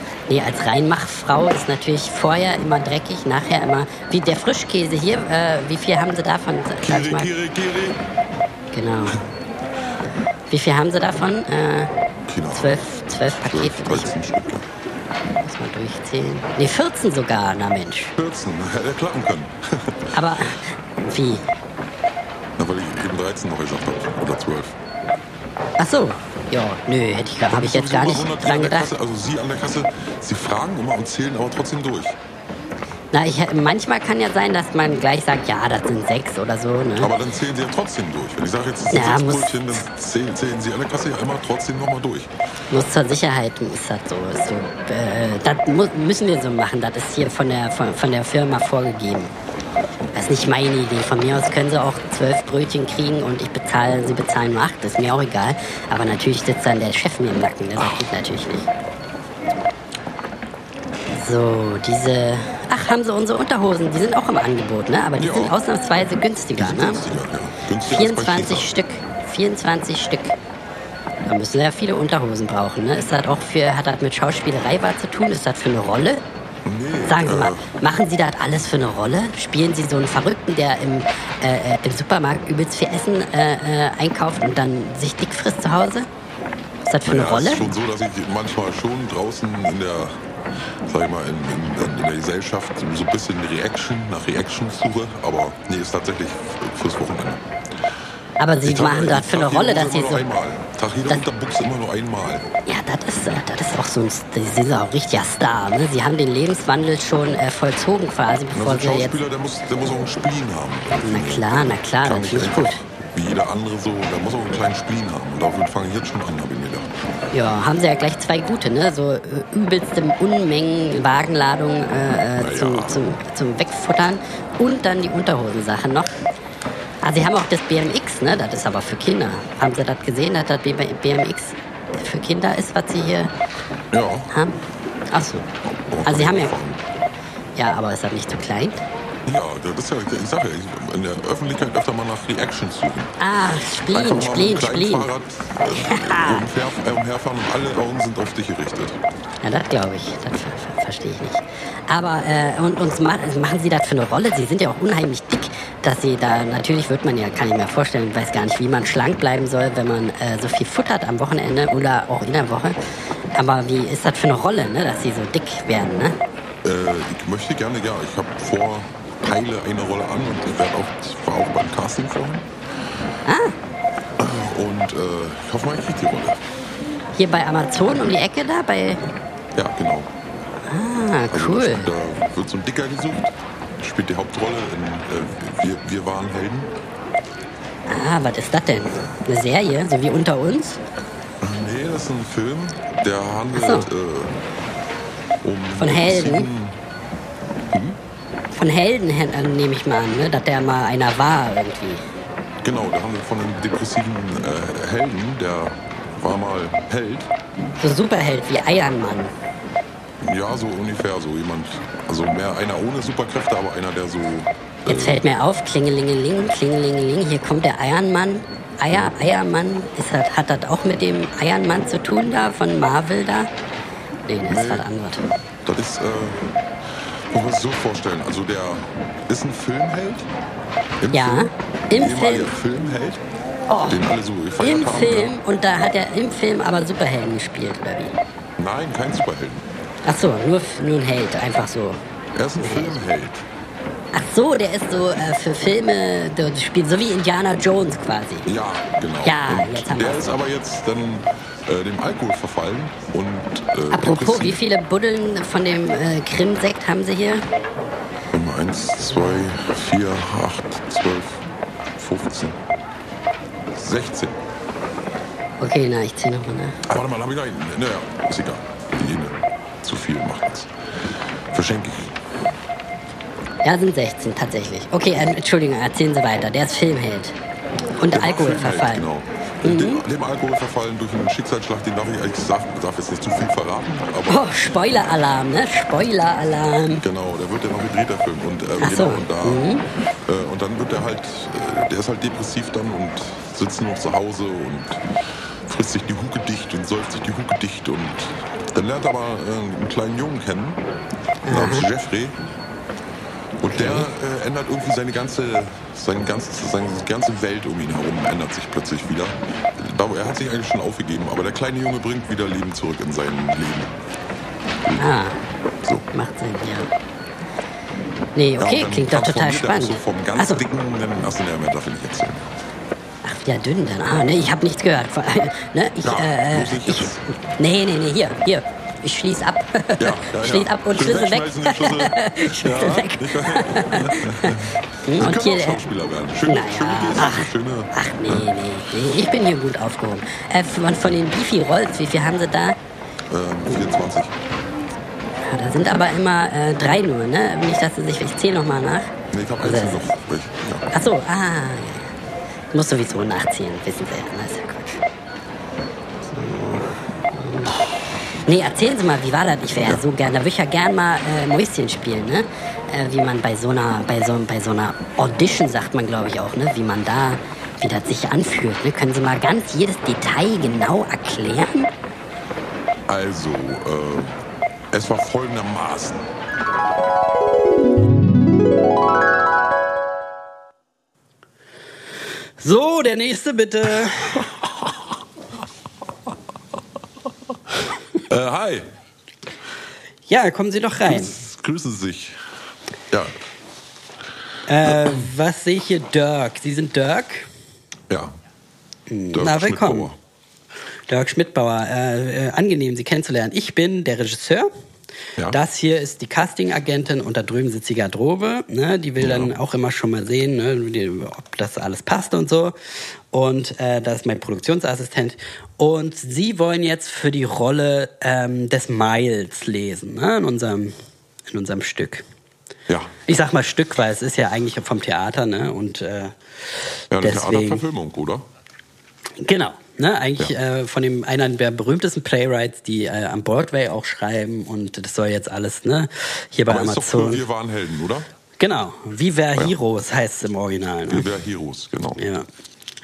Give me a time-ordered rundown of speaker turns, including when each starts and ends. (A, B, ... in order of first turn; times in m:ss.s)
0:00.3-0:07.3 A
0:06.8-0:08.0 B
0:08.7-0:09.2 A
0:10.5-0:11.9 A
0:12.3-0:12.8 B
0:12.5-0:14.1 A
0:13.4-0:14.7 B
0:15.4-0:18.2 A
0:18.2-0:20.2 B
0:20.1-0:21.5 A
0:22.6-0:24.8 B
0:25.8-0:28.9 A
0:27.5-0:32.2 B
0:33.1-0:37.1 A
0:37.0-0:42.3 B
0:38.9-0:39.6 A
0:42.7-0:49.3 A
0:50.1-0:58.7 A
0:57.8-0:58.1 B
1:01.1-1:07.0 A
1:05.2-1:05.6 B
1:06.6-1:08.7 B
1:07.8-1:10.4 A
1:11.2-1:16.2 A
1:16.6-1:17.6 B
1:17.0-1:26.1 A
1:26.8-1:27.7 A
1:27.0-1:30.2 B
1:30.9-1:37.4 B
1:38.4-1:40.3 A
1:38.6-1:42.5 B
1:42.7-1:49.2 A
1:48.5-1:56.9 B
1:51.0-1:52.8 A
1:57.3-2:06.2 A
2:02.4-2:03.0 B
2:07.0-2:13.3 A
2:13.9-2:14.3 B
2:14.3-2:14.6 A
2:15.1-2:15.5 A
2:15.6-2:16.8 B
2:16.0-2:16.5 A
2:17.6-2:18.8 A
2:19.3-2:23.2 B
2:23.2-2:25.1 A
2:23.9-2:29.0 B
2:25.7-2:26.5 A
2:29.4-2:42.8 A
2:43.4-2:46.2 A
2:46.6-2:52.5 B
2:53.3-2:53.6 A
2:54.2-2:56.4 B
2:57.2-2:59.0 A
2:59.6-3:00.1 B
3:00.7-3:01.9 A
3:01.3-3:06.7 B
3:07.9-3:10.8 A
3:11.4-3:14.4 B
3:13.5-3:13.9 A
3:15.4-3:16.8 B
3:15.8-3:16.5 A
3:17.7-3:18.0 B
3:18.5-3:22.1 A
3:22.6-3:27.3 B
3:27.8-3:29.3 A
3:30.2-3:35.2 B
3:34.9-3:43.5 A
3:44.3-3:45.2 A
3:44.5-3:44.9 B
3:45.6-3:46.4 B
3:47.3-3:50.3 B
3:51.0-3:53.2 B
3:51.1-3:52.5 A
3:53.7-3:54.0 A
3:53.9-3:55.3 B
3:54.6-3:58.2 A
3:58.6-3:59.6 B
4:00.0-4:02.0 A
4:02.4-4:03.5 B
4:02.6-4:03.0 A
4:04.1-4:08.5 A
4:08.5-4:14.6 B
4:09.2-4:10.4 A
4:13.9-4:17.4 A
4:18.3-4:22.6 B
4:23.7-4:24.4 B
4:25.6-4:26.8 A
4:26.9-4:30.7 B
4:31.5-4:32.1 B
4:33.6-4:37.4 A
4:38.0-4:39.0 A
4:38.0-4:44.6 B
4:39.6-4:40.0 A
4:44.3-4:47.0 A
4:47.0-4:49.7 B
4:48.8-4:49.8 A
4:50.2-4:55.0 B
4:55.7-5:00.8 B
5:01.4-5:01.9 A
5:01.5-5:02.4 B
5:03.6-5:13.9 B
5:03.7-5:04.1 A
5:15.0-5:15.4 A
5:16.1-5:16.9 A
5:18.4-5:20.6 A
5:18.6-5:22.4 B
5:23.2-5:35.9 A
5:26.0-5:27.2 B
5:30.0-5:38.5 B
5:36.5-5:42.8 A
5:43.3-5:44.4 B
5:45.4-5:50.1 A
5:49.3-5:50.9 B
5:50.9-5:52.1 A
5:52.7-5:55.0 A
5:56.2-5:57.8 A
5:58.4-6:11.9 A
6:13.1-6:14.4 B
6:14.9-6:16.2 B
6:22.6-6:24.4 C
6:28.2-6:28.9 B
6:30.3-6:31.3 C
6:31.0-6:32.4 B
6:34.7-6:37.5 C
6:34.9-6:35.2 B
6:38.1-6:38.4 B
6:39.1-6:40.1 C
6:39.3-6:40.2 B
6:41.1-6:44.7 C
6:45.5-6:52.8 C
6:49.2-6:49.6 B
6:53.3-7:01.0 C
7:01.5-7:02.2 C
7:02.9-7:03.2 B
7:03.3-7:06.3 C
7:07.1-7:08.4 B
7:07.2-7:07.8 C
7:09.4-7:17.4 C
7:16.7-7:18.3 B
7:18.6-7:21.3 C
7:21.1-7:22.2 B
7:22.2-7:22.5 C